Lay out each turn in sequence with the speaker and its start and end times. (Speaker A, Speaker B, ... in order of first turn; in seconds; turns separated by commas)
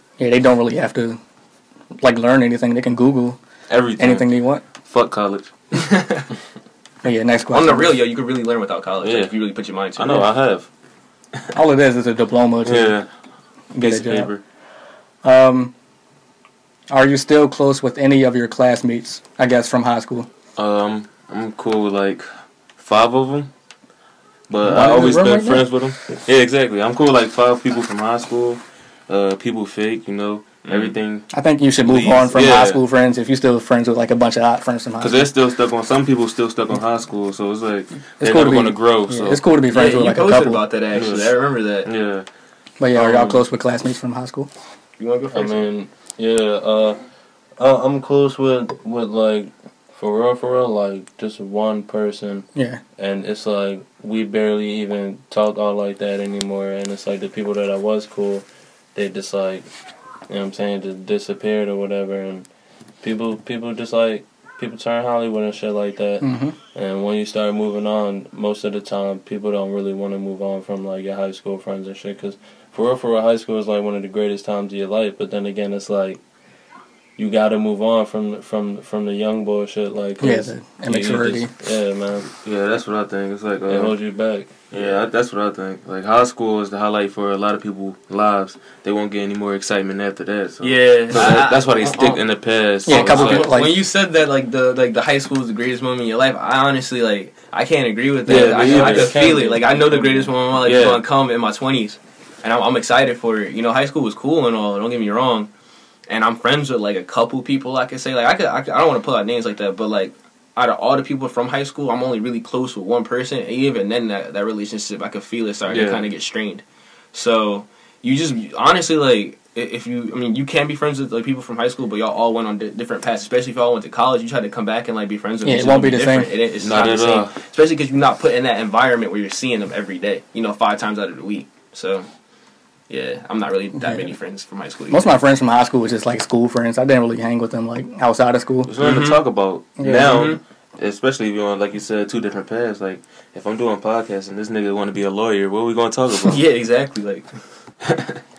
Speaker A: 0.2-1.2, Speaker A: 2.0-3.4, Speaker B: 3.7-4.3, Speaker A: 4.0-4.6, Speaker B: 4.8-5.5, Speaker C: 5.7-6.3, Speaker A: 7.0-8.0, Speaker C: 7.5-10.3, Speaker B: 9.0-9.3, Speaker B: 9.9-10.7, Speaker A: 11.5-12.9, Speaker B: 12.6-13.1, Speaker A: 13.7-14.3, Speaker B: 13.8-14.4, Speaker A: 15.2-15.7, Speaker A: 16.9-20.3, Speaker B: 20.6-23.5, Speaker B: 24.5-31.3, Speaker A: 24.6-25.7, Speaker C: 30.6-31.0, Speaker A: 31.3-35.3, Speaker B: 31.8-32.8, Speaker B: 35.0-39.4, Speaker A: 38.2-40.6, Speaker C: 39.7-41.9, Speaker B: 40.9-42.2, Speaker A: 42.8-44.5, Speaker C: 45.0-45.7, Speaker D: 45.3-47.0, Speaker D: 47.6-59.7, Speaker A: 52.5-52.8, Speaker D: 60.3-62.5, Speaker D: 63.0-76.2, Speaker A: 66.2-66.5, Speaker D: 77.2-82.3, Speaker A: 80.2-81.5, Speaker B: 82.3-84.0, Speaker D: 83.7-85.0, Speaker B: 84.7-93.6, Speaker C: 90.6-92.2, Speaker A: 92.8-93.8, Speaker C: 92.9-105.5, Speaker B: 98.2-99.3, Speaker D: 98.3-100.4, Speaker B: 100.6-101.0, Speaker C: 106.1-132.1, Speaker B: 115.7-116.0, Speaker A: 125.4-126.3, Speaker B: 126.6-127.4, Speaker C: 132.9-135.1, Speaker A: 133.8-134.1, Speaker A: 134.9-138.7, Speaker B: 138.6-146.4, Speaker C: 138.8-139.2, Speaker A: 139.8-140.2, Speaker C: 140.0-140.4, Speaker C: 146.2-147.3, Speaker B: 147.9-148.1